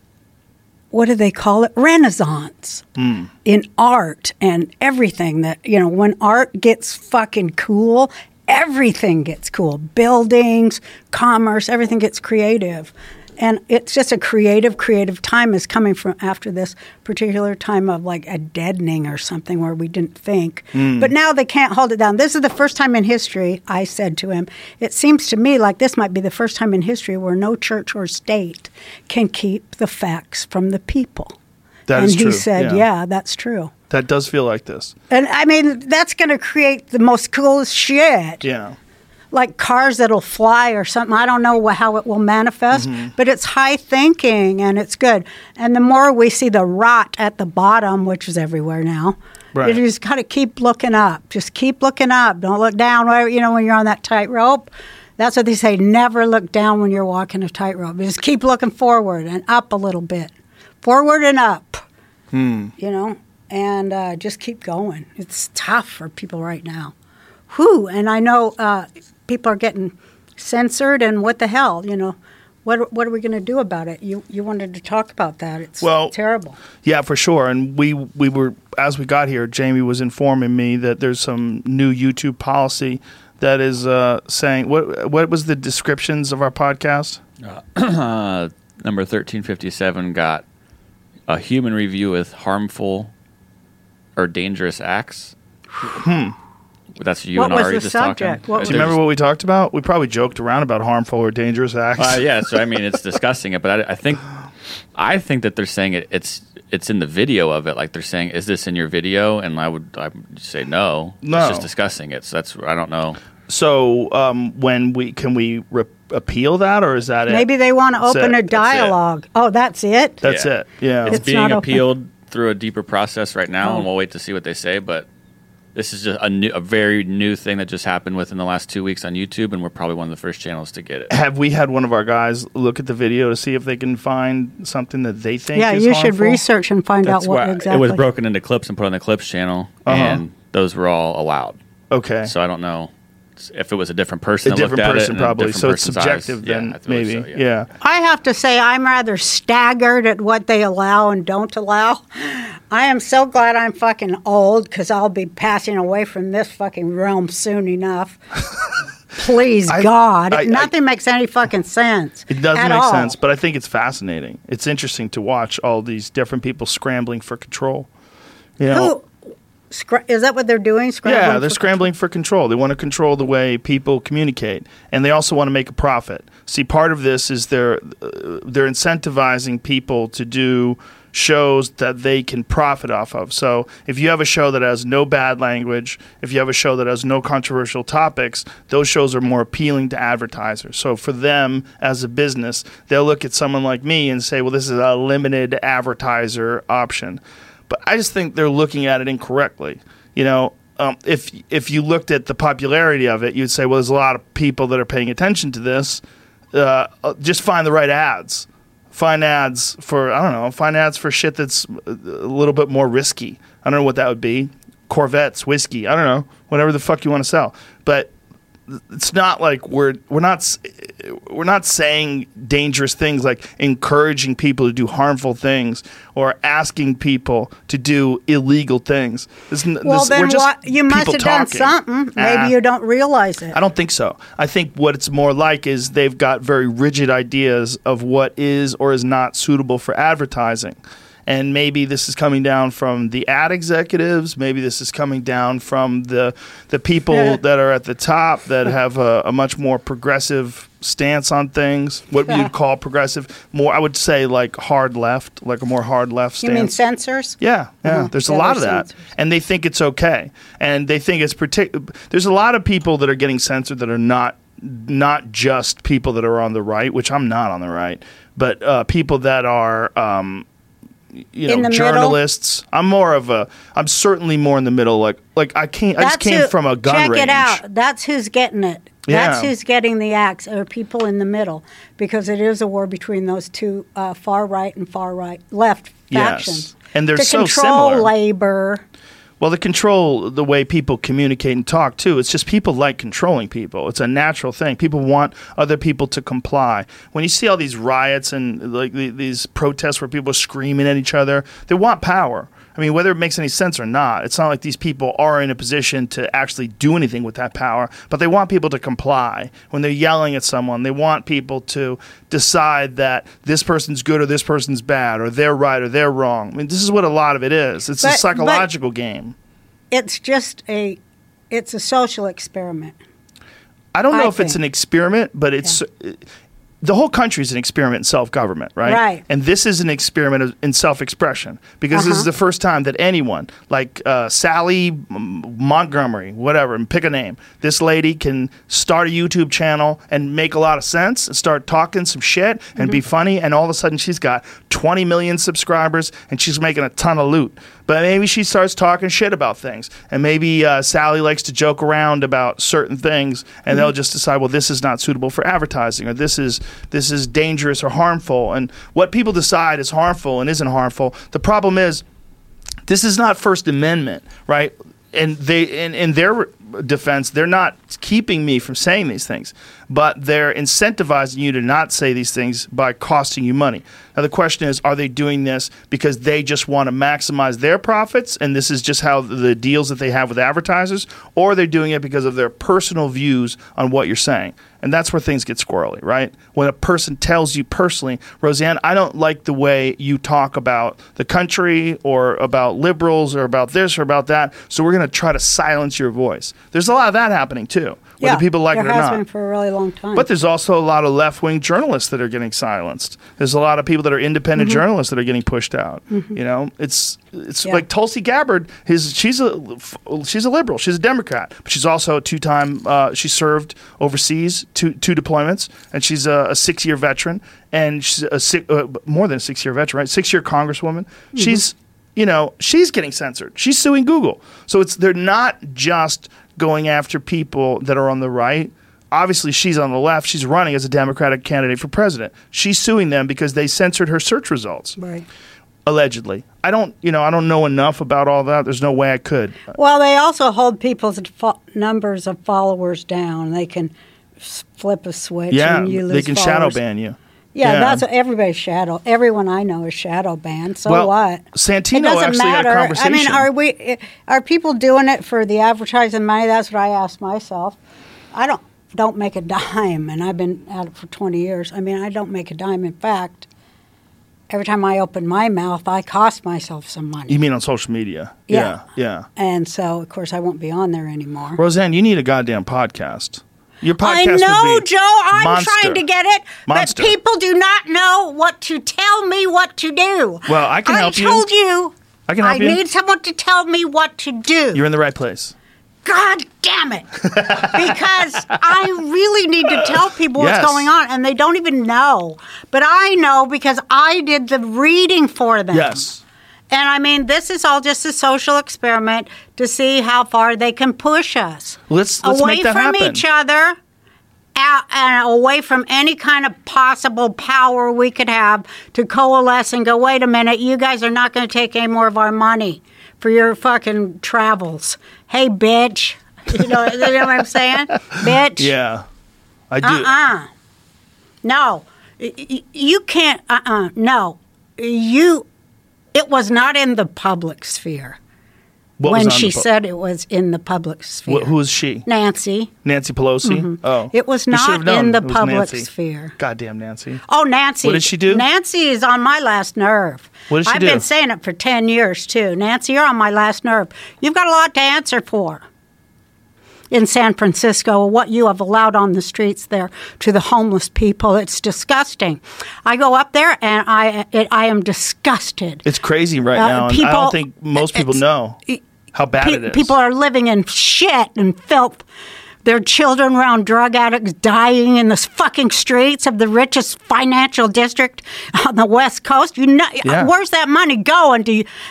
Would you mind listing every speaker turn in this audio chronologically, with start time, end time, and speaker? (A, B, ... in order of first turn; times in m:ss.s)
0:00.9-0:02.8 A
0:03.0-0:03.3 B
0:03.4-0:31.3 A
0:20.7-0:21.1 B
0:31.9-0:32.8 B
0:31.9-0:33.7 A
0:33.9-0:34.9 B
0:35.1-0:38.4 A
0:38.4-0:38.8 B
0:39.3-1:01.8 A
0:42.7-0:43.1 B
0:49.5-0:49.8 B
1:02.3-1:02.7 B
1:02.8-1:06.9 A
1:07.5-1:16.6 A
1:15.8-1:16.1 B
1:16.8-1:27.2 B
1:27.4-1:30.4 C
1:31.3-1:33.1 C
1:34.2-1:35.3 C
1:35.9-1:36.3 B
1:37.0-1:39.0 C
1:37.3-1:38.9 A
1:38.6-1:42.2 B
1:42.0-1:44.3 C
1:44.9-1:53.2 C
1:51.2-1:51.7 B
1:53.5-1:57.5 B
1:57.3-2:00.2 A
1:58.0-1:58.9 B
2:00.2-2:01.2 B
2:00.2-2:00.5 C
2:01.0-2:05.1 C
2:01.1-2:01.8 A
2:05.7-2:11.1 C
2:11.1-2:16.4 B
2:15.5-2:18.0 A
2:17.0-2:21.6 C
2:19.8-2:20.2 B
2:21.9-2:22.3 B
2:22.2-2:27.4 C
2:24.4-2:27.7 B
2:27.8-2:38.2 A
2:39.2-2:43.1 A
2:39.7-2:40.7 B
2:42.3-2:47.9 B
2:48.6-2:48.9 B
2:48.7-2:49.1 A
2:49.7-2:51.9 A
2:51.0-3:38.1 B
3:38.7-3:52.6 B
3:49.8-3:53.6 A
3:53.5-4:16.8 B
4:16.4-4:19.0 A
4:17.4-4:30.4 B
4:31.2-4:37.6 B
4:31.5-4:32.2 A
4:36.0-4:48.8 A
4:39.0-4:39.5 B
4:46.1-4:48.1 B
4:49.4-5:19.3 B
5:18.0-5:18.7 A
5:19.9-5:21.0 A
5:21.5-5:23.0 A
5:23.9-5:26.2 B
5:24.1-5:24.6 A
5:26.8-6:02.0 B
5:28.8-5:29.2 A
5:31.9-5:32.3 A
6:02.8-6:39.2 B
6:38.2-6:40.2 A
6:40.1-7:15.0 B
7:15.0-7:15.2 A
7:15.8-7:19.6 B
7:19.7-7:26.8 A
7:25.5-7:28.0 B
7:27.5-7:37.8 A
7:30.8-7:33.5 B
7:38.3-7:43.5 A
7:44.5-7:47.4 A
7:47.3-7:49.3 B
7:48.5-7:48.8 A
7:49.4-7:51.6 A
7:51.6-7:56.0 B
7:54.0-8:04.8 A
7:56.7-7:57.1 B
8:00.5-8:01.4 B
8:02.3-8:02.8 B
8:04.7-8:05.5 B
8:06.0-8:16.1 A
8:07.3-8:07.9 B
8:09.8-8:10.9 B
8:15.7-8:16.2 B
8:16.7-8:23.8 A
8:21.9-8:23.2 B
8:24.6-8:38.7 A
8:38.6-8:39.0 B
8:39.7-8:40.1 B
8:39.8-8:40.5 A
8:41.4-8:45.5 A
8:46.1-8:48.2 A
8:49.0-8:49.7 B
8:49.1-8:51.5 A
8:51.3-8:52.1 B
8:52.0-8:52.7 A
8:52.8-8:57.2 B
8:53.4-8:56.4 A
8:57.3-9:05.6 A
8:57.8-8:58.4 B
9:00.5-9:01.0 B
9:06.9-9:15.8 A
9:15.8-9:18.6 B
9:16.5-9:18.8 A
9:19.1-9:19.9 B
9:19.4-9:22.0 A
9:22.6-9:31.6 A
9:30.0-9:30.3 B